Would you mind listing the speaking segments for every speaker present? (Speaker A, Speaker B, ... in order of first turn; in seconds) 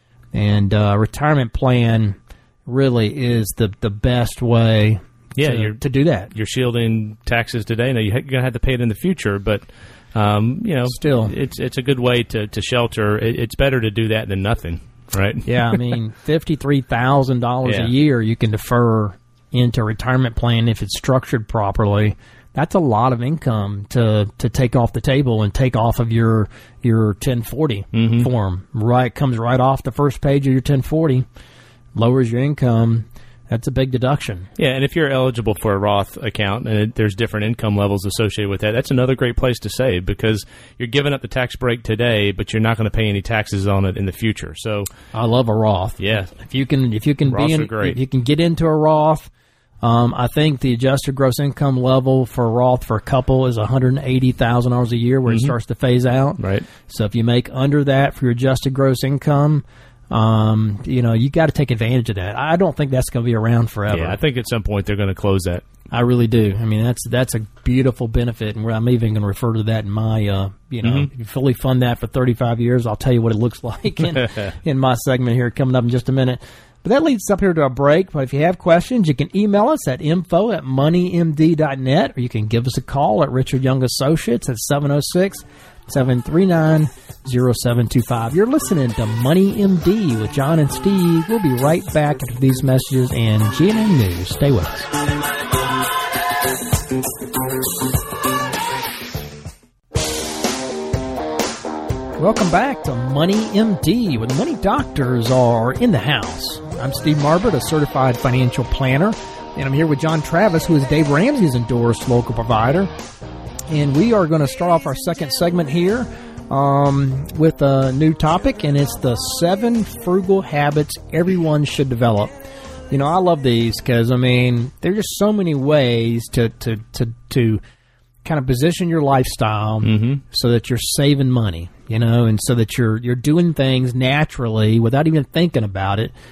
Speaker A: 0.3-6.3, 10.9-11.3, 15.4-31.2, 31.9-34.5, 45.1-49.3, 49.8-64.2, 65.9-94.9, 102.2-112.9, 113.7-122.3, 122.9-127.6, 128.2-136.1
Speaker B: 5.4-5.8, 6.3-15.8, 17.6-17.9, 27.9-28.3, 34.6-44.9, 46.0-46.3, 47.3-48.0, 55.3-55.5, 56.4-56.7, 63.9-65.6, 70.8-71.1, 74.2-74.5, 129.8-130.2